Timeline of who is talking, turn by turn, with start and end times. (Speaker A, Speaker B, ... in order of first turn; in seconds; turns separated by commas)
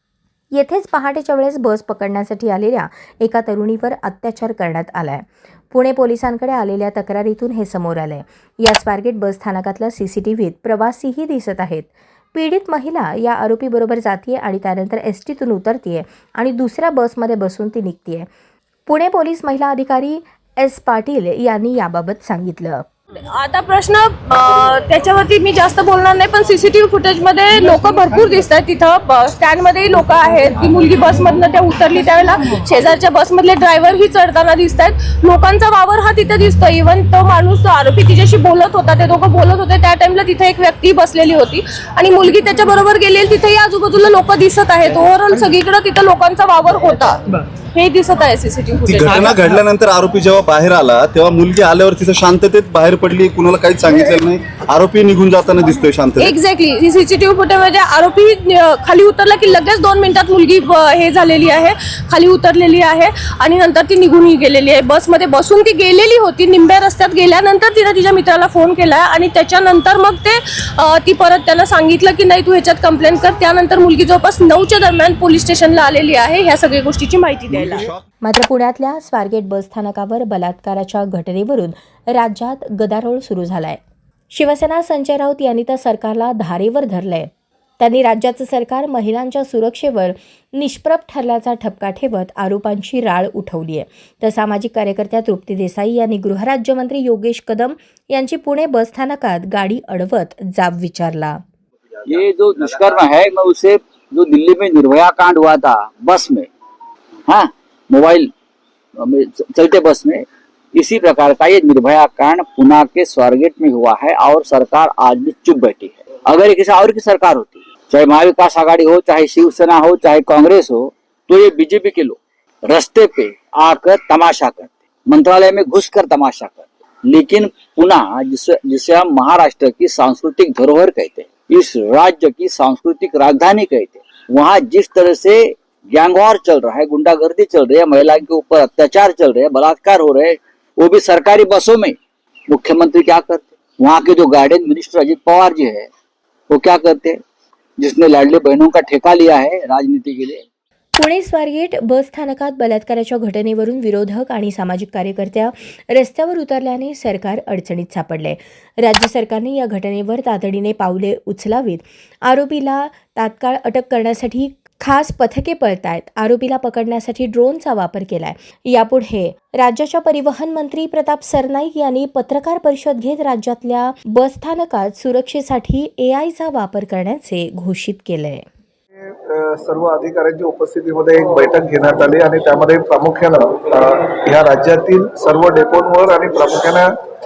Speaker A: 0.5-18.3, Speaker A: 18.9-22.9, Speaker B: 23.3-47.2, Speaker B: 47.7-49.5, Speaker C: 48.9-56.4, Speaker B: 56.2-77.9, Speaker C: 77.5-78.0, Speaker A: 78.2-83.8, Speaker A: 84.3-101.4, Speaker D: 102.1-106.5, Speaker D: 107.3-108.3, Speaker D: 109.0-142.0, Speaker D: 142.5-145.9, Speaker D: 146.5-147.2, Speaker D: 147.8-150.4, Speaker A: 151.0-178.5, Speaker E: 179.0-186.9